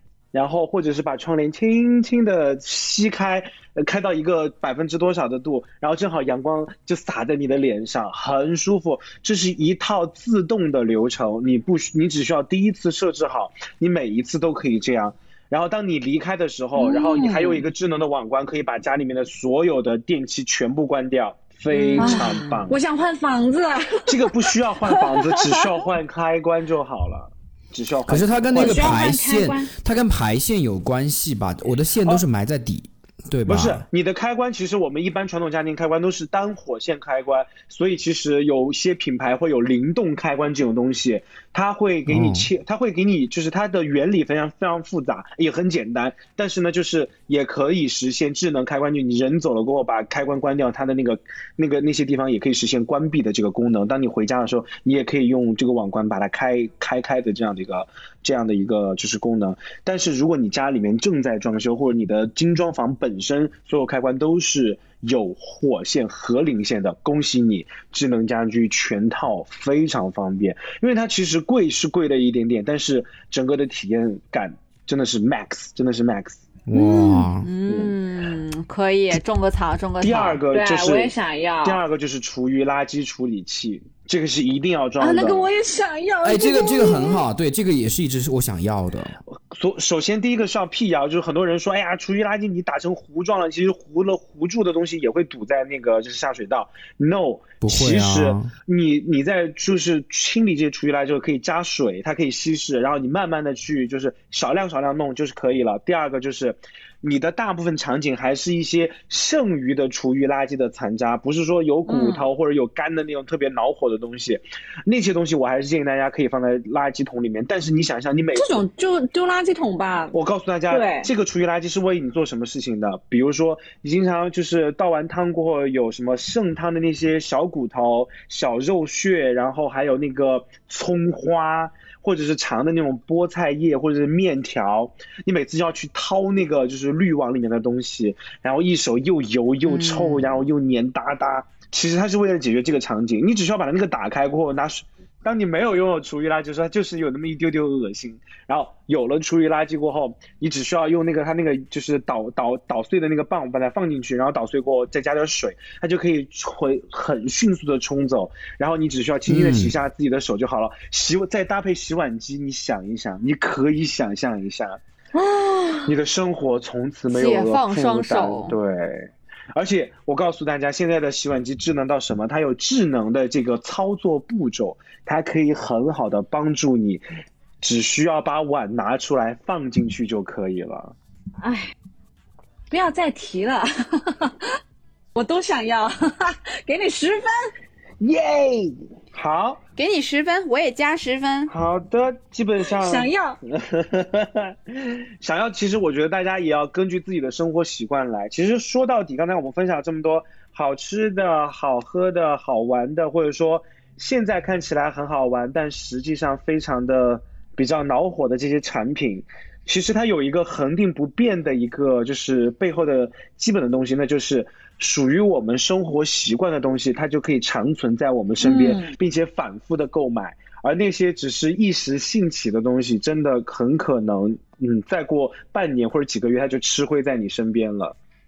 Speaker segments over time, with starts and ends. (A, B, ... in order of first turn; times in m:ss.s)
0:00.3-0:22.8 A
0:16.7-0:17.6 B
0:21.7-0:22.6 C
0:22.0-0:24.4 B
0:24.1-0:29.0 A
0:28.1-0:33.8 D
0:28.5-0:29.7 B
0:33.5-1:16.4 A
0:42.1-0:42.5 D
1:16.7-1:17.5 D
1:16.7-1:20.4 C
1:17.7-1:17.9 A
1:20.0-1:25.5 A
1:20.5-1:21.8 B
1:25.0-1:27.2 B
1:26.2-1:29.2 D
1:29.5-1:58.6 A
1:37.6-1:38.5 D
1:51.9-1:52.3 B
1:58.3-2:00.1 B
2:00.1-2:44.8 A
2:00.7-2:01.1 B
2:19.6-2:20.3 C
2:39.3-2:39.7 D
2:45.1-2:45.9 B
2:45.8-2:57.0 A
2:47.1-2:48.6 C
2:57.6-3:00.9 A
3:01.4-3:01.7 B
3:02.7-3:04.5 B
3:05.1-3:07.5 B
3:08.0-3:09.6 A
3:09.8-3:11.5 C
3:11.5-3:48.0 A
3:12.7-3:13.4 B
3:38.4-3:39.0 B